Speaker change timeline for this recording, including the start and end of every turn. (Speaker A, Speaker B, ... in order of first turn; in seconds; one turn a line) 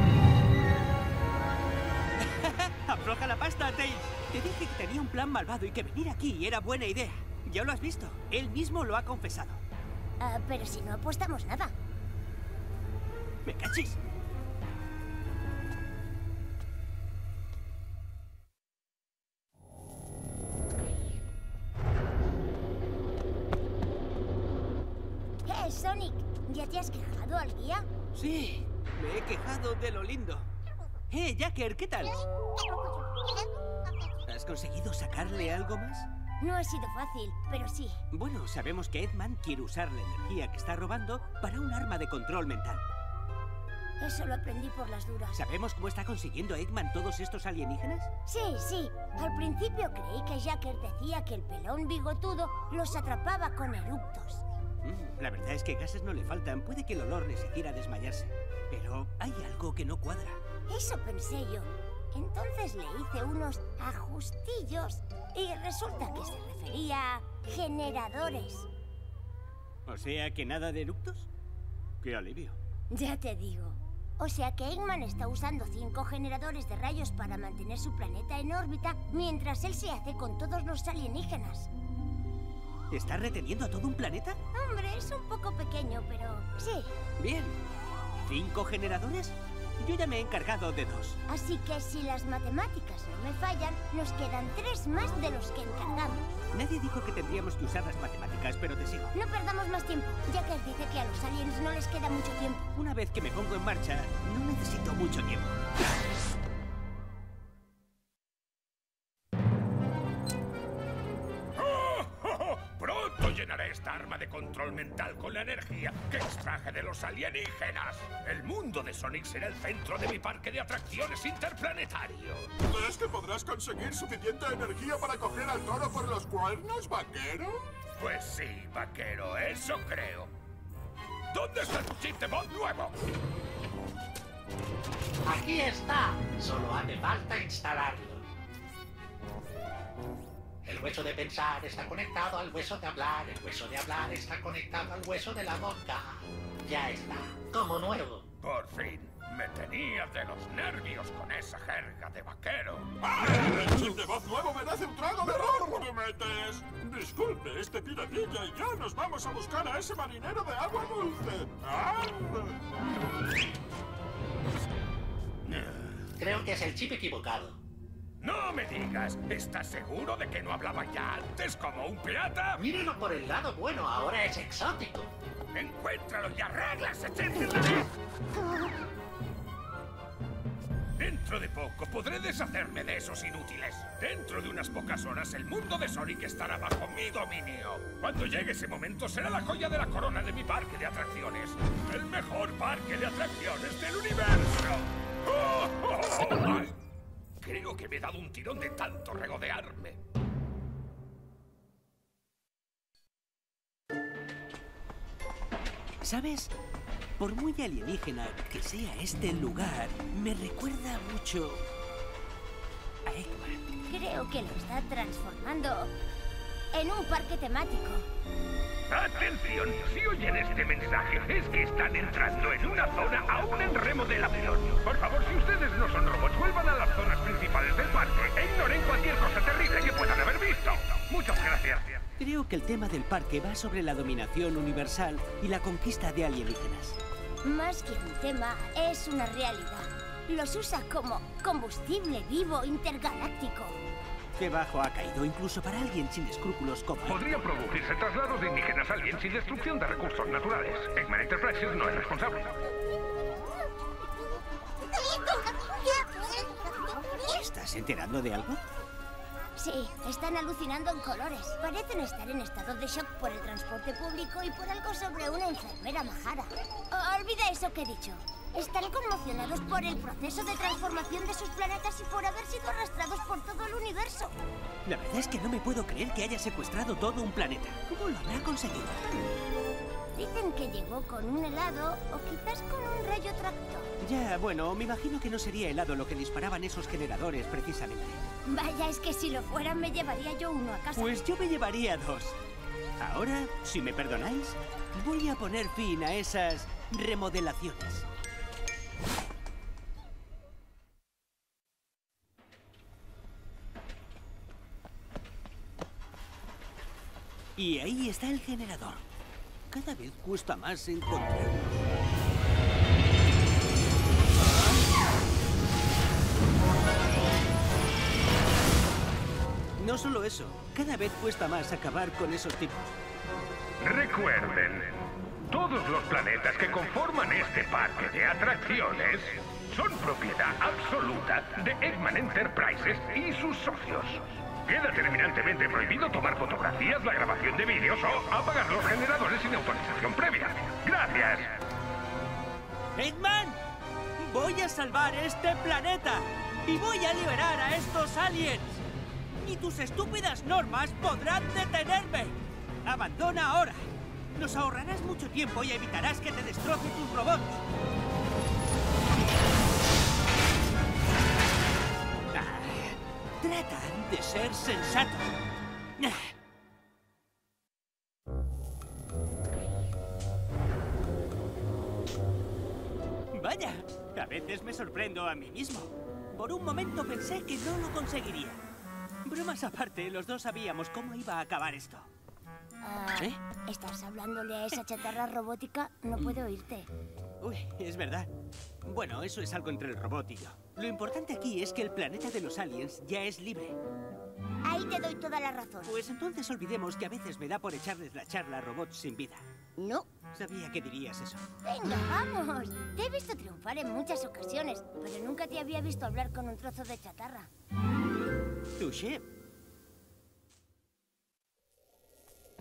Speaker A: 2.2-9.6
Speaker B: 10.2-11.7
Speaker A: 13.4-14.0
Speaker B: 25.4-27.9
Speaker A: 28.1-30.5
Speaker A: 31.1-32.2
Speaker A: 34.2-36.1
Speaker B: 36.4-38.0
Speaker A: 38.1-42.8
Speaker B: 44.0-45.4
Speaker A: 45.3-48.1
Speaker B: 48.3-54.4
Speaker A: 54.8-60.4
Speaker B: 60.7-68.7
Speaker A: 69.9-71.3
Speaker A: 72.0-72.6
Speaker B: 72.9-81.7
Speaker A: 82.9-84.4
Speaker B: 84.5-86.9
Speaker A: 87.2-87.6
Speaker A: 88.2-91.2
Speaker B: 91.3-96.2
Speaker A: 96.5-99.1
Speaker B: 99.1-102.7
Speaker A: 102.8-105.6
Speaker C: 111.5-122.5
Speaker D: 122.7-127.6
Speaker C: 128.0-130.3
Speaker C: 131.3-132.9
Speaker E: 135.2-138.2
Speaker E: 140.6-148.3
Speaker C: 148.4-152.9
Speaker D: 153.0-162.6
Speaker C: 165.5-165.9
Speaker E: 166.2-167.6
Speaker C: 168.2-172.6
Speaker E: 172.6-175.1
Speaker C: 175.5-177.9
Speaker C: 181.0-196.8
Speaker C: 197.4-200.0
Speaker A: 206.0-206.5
Speaker A: 207.2-211.6
Speaker A: 213.0-213.6
Speaker B: 213.9-215.9
Speaker B: 216.7-218.1
Speaker C: 218.9-232.0
Speaker A: 232.2-237.0
Speaker B: 237.4-243.8
Speaker A: 244.4-247.2
Speaker C: 247.1-252.5
Speaker A: 257.2-258.6
Speaker B: 259.6-274.4
Speaker A: 274.8-279.1
Speaker B: 280.1-283.9
Speaker A: 284.0-288.2
Speaker B: 288.4-291.2
Speaker A: 290.9-292.4
Speaker A: 293.0-298.0
Speaker A: 307.6-309.1
Speaker A: 309.7-311.8
Speaker A: 319.8-323.0
Speaker C: 323.8-341.5
Speaker A: 342.9-343.6
Speaker A: 344.2-348.8
Speaker A: 349.4-357.6
Speaker A: 362.3-365.4
Speaker A: 366.0-366.3
Speaker A: 373.3-378.6
Speaker A: 379.2-382.1
Speaker B: 382.8-386.9
Speaker A: 387.4-388.3
Speaker A: 388.8-393.8
Speaker B: 394.6-396.0
Speaker A: 395.8-399.5
Speaker B: 399.8-400.1
Speaker A: 400.3-401.4
Speaker B: 401.6-407.5
Speaker A: 408.8-409.2